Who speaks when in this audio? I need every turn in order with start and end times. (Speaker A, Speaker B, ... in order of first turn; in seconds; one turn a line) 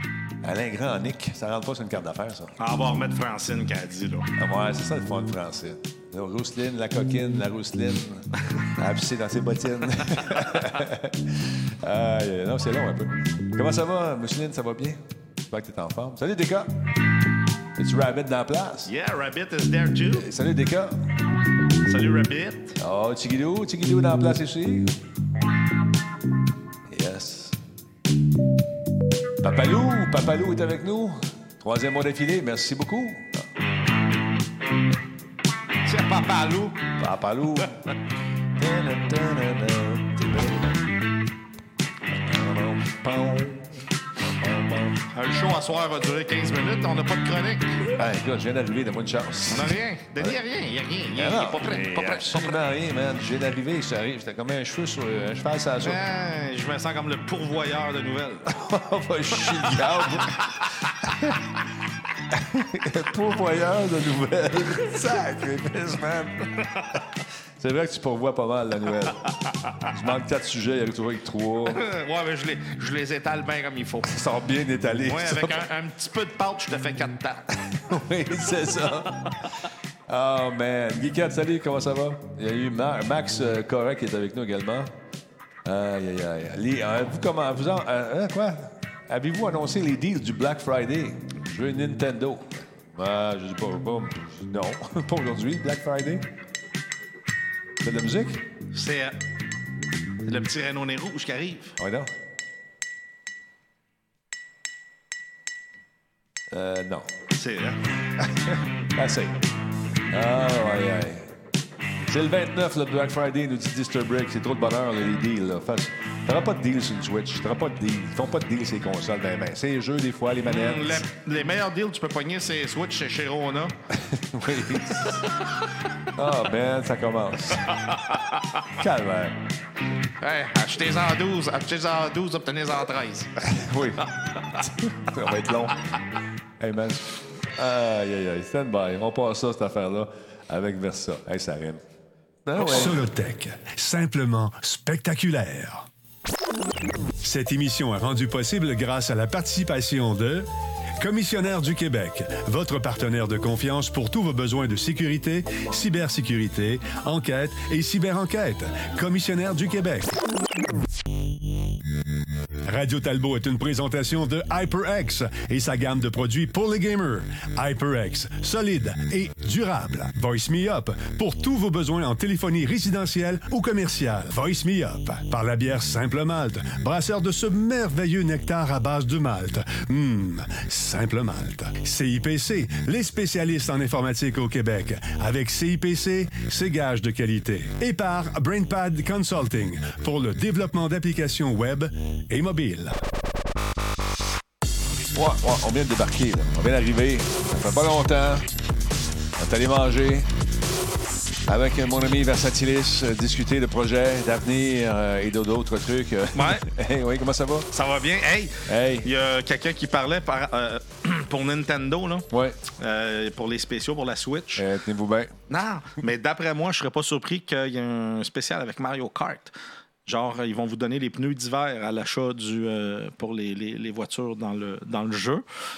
Speaker A: 0.4-2.6
Speaker B: 2.6-4.3
Speaker A: 4.3-16.7
Speaker A: 17.7-18.9
Speaker B: 18.9-20.3
Speaker A: 20.1-21.1
Speaker B: 21.7-22.8
Speaker A: 22.8-25.0
Speaker A: 26.9-27.6
Speaker A: 29.4-33.5
Speaker B: 35.8-36.9
Speaker A: 37.0-37.9
Speaker A: 38.5-40.8
Speaker A: 42.1-45.0
Speaker B: 45.1-47.9
Speaker A: 47.9-50.4
Speaker B: 49.5-52.6
Speaker A: 51.1-56.0
Speaker B: 55.8-58.6
Speaker A: 58.4-61.4
Speaker B: 59.4-60.7
Speaker A: 62.3-66.7
Speaker A: 67.6-71.8
Speaker B: 69.5-69.9
Speaker B: 71.7-74.1
Speaker A: 74.0-75.7
Speaker B: 75.0-77.7
Speaker A: 77.7-79.5
Speaker A: 80.1-84.9
Speaker A: 85.6-96.2
Speaker A: 97.8-98.5
Speaker B: 98.7-99.2
Speaker B: 100.2-101.8
Speaker A: 101.8-102.1
Speaker A: 106.5-107.1
Speaker B: 107.3-107.8
Speaker A: 108.2-109.4
Speaker A: 110.1-111.3
Speaker A: 112.0-121.0
Speaker B: 120.5-123.8
Speaker A: 123.9-125.3
Speaker B: 125.0-125.6
Speaker A: 126.1-127.8
Speaker B: 127.6-128.7
Speaker A: 128.7-129.4
Speaker B: 130.2-133.4
Speaker A: 133.4-135.8
Speaker A: 136.6-141.8
Speaker A: 142.4-143.1
Speaker B: 142.6-143.0
Speaker C: 142.6-145.9
Speaker C: 147.2-150.5
Speaker C: 151.0-160.1
Speaker C: 162.6-193.0
Speaker A: 195.1-198.5
Speaker A: 199.4-200.3
Speaker A: 201.4-207.7
Speaker B: 206.3-206.7
Speaker B: 207.7-214.6
Speaker A: 208.7-209.1
Speaker A: 212.3-212.6
Speaker A: 214.6-215.3
Speaker B: 215.5-219.5
Speaker B: 220.1-225.4